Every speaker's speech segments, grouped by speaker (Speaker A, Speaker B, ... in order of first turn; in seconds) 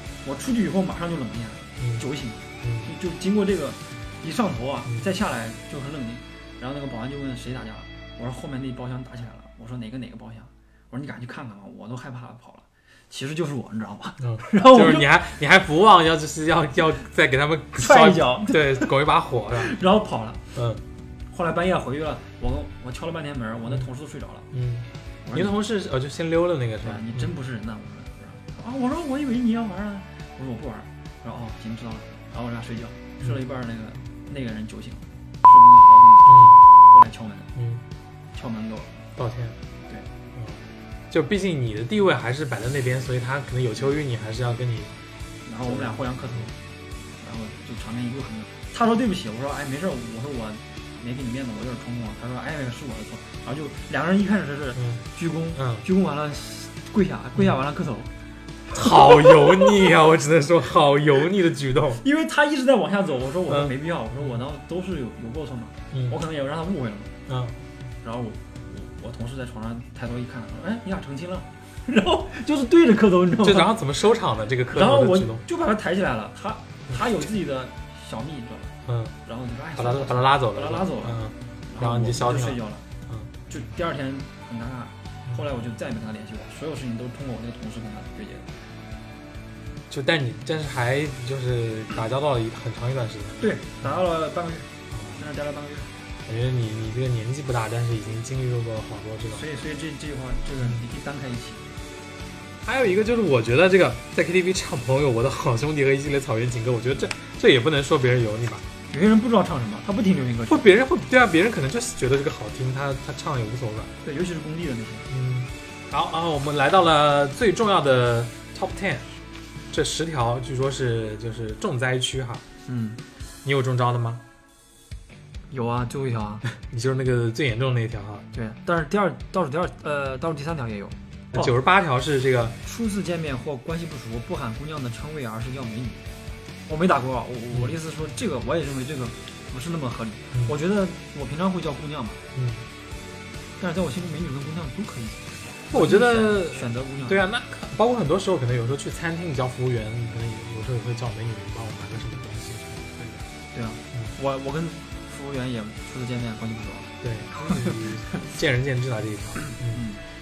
Speaker A: 0.2-15.1, 17.8-18.9, 19.6-20.4, 21.3-24.5, 25.2-25.6, 26.8-37.5, 38.3-38.9, 45.4-46.5, 47.2-58.1, 58.8-59.5, 62.0-67.1, 68.0-73.7, 74.7-82.8, 83.5-88.5, 93.4-95.9, 99.3-101.7, 108.9-110.7, 114.0-115.0, 122.6-123.0, 125.5-126.4, 128.3-131.5, 132.6-136.0, 136.7-142.2, 143.6-147.2, 153.5-157.8, 159.4-160.0
Speaker B: 1.8-2.0, 2.6-2.9, 14.2-19.7, 20.5-20.8, 24.5-27.3, 36.3-36.5, 37.5-37.8, 39.2-39.6, 40.3-44.9, 45.6-46.5, 54.8-55.0, 55.5-55.8, 58.7-62.0, 63.5-63.7, 65.9-66.2, 67.3-67.6, 73.4-75.4, 76.9-77.3, 78.8-79.1, 79.8-83.3, 89.9-93.9, 94.9-95.2, 96.2-99.4, 102.6-108.6, 110.5-113.9, 115.1-119.0, 119.7-122.4, 123.4-124.2, 126.6-128.2, 131.3-132.6, 142.3-142.7, 145.7-153.2, 157.0-159.8